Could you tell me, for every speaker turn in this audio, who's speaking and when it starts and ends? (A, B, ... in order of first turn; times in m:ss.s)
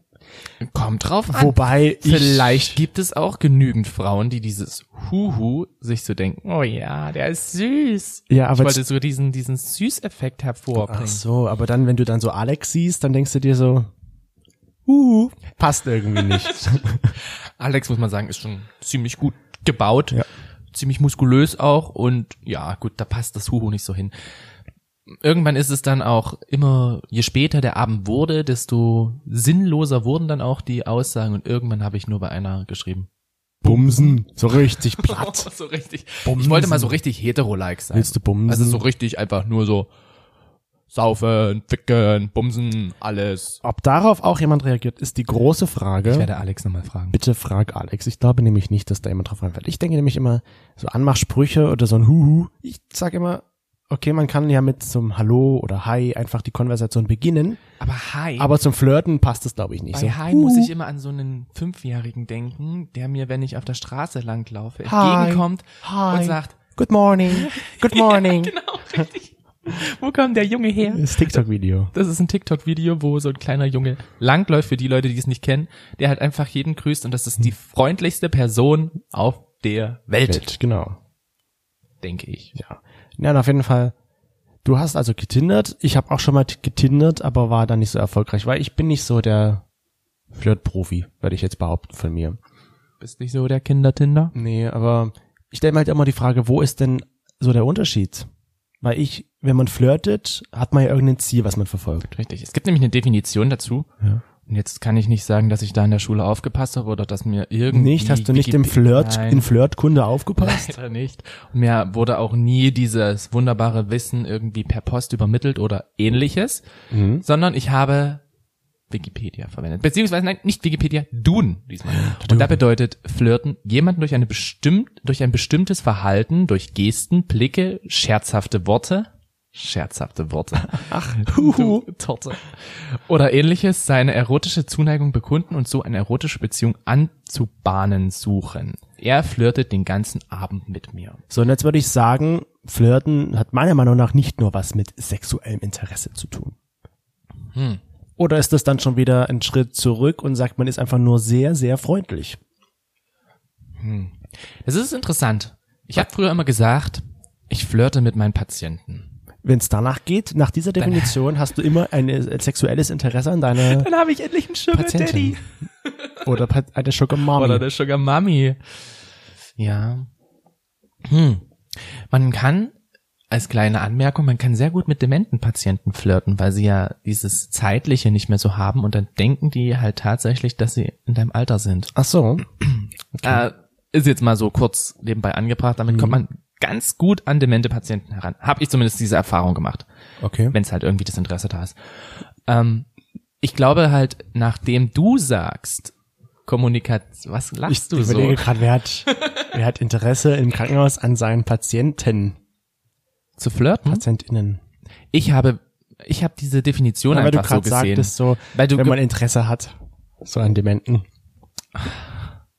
0:00.6-0:11.2 A
0:01.3-0:02.8 B
0:08.3-0:08.8 B
0:10.8-0:13.9 B
0:14.9-0:17.1 B
0:16.1-0:24.1 A
0:25.1-0:33.1 A
0:33.6-0:39.9 A
0:33.6-0:35.5 B
0:36.2-0:37.0 B
0:37.9-0:38.8 B
0:40.9-0:43.6 A
0:43.6-0:46.3 B
0:46.0-0:47.2 A
0:47.1-0:57.6 B
0:57.8-0:58.5 A
0:58.4-1:00.7 B
0:59.9-1:06.6 A
1:04.8-1:08.6 B
1:07.3-1:11.4 A
1:10.8-1:11.9 B
1:11.9-1:20.5 A
1:20.2-1:21.0 B
1:22.0-1:22.6 A
1:22.6-1:23.9 B
1:24.6-1:29.6 B
1:30.3-1:32.4 B
1:33.0-1:34.3 A
1:34.3-1:38.3 B
1:38.8-1:42.1 B
1:42.1-1:43.9 A
1:44.5-1:49.5 A
1:47.7-1:50.7 B
1:50.4-1:56.6 A
1:56.9-1:57.2 B
1:57.2-1:58.2 A
1:58.9-2:21.2 A
2:01.9-2:02.6 B
2:10.7-2:11.9 B
2:21.3-2:26.6 B
2:27.5-2:27.8 A
2:28.2-2:32.4 B
2:33.8-2:39.1 A
2:39.4-2:43.9 B
2:40.8-2:41.2 A
2:43.6-2:46.2 A
2:44.7-2:45.4 B
2:46.2-2:47.6 B
2:47.2-2:48.6 A
2:49.6-2:50.1 A
2:51.0-2:51.4 A
2:52.1-2:52.7 A
2:53.3-3:01.9 A
3:01.9-3:02.4 B
3:02.6-3:09.9 A
3:03.1-3:03.4 B
3:05.9-3:06.2 B
3:10.2-3:10.6 B
3:10.5-3:11.8 A
3:12.5-3:12.9 A
3:13.4-3:15.9 A
3:16.5-3:18.5 A
3:17.7-3:22.4 B
3:19.1-3:19.5 A
3:23.4-3:24.0 A
3:23.9-3:24.6 B
3:25.1-3:29.0 A
3:27.1-3:31.0 B
3:31.8-3:32.1 A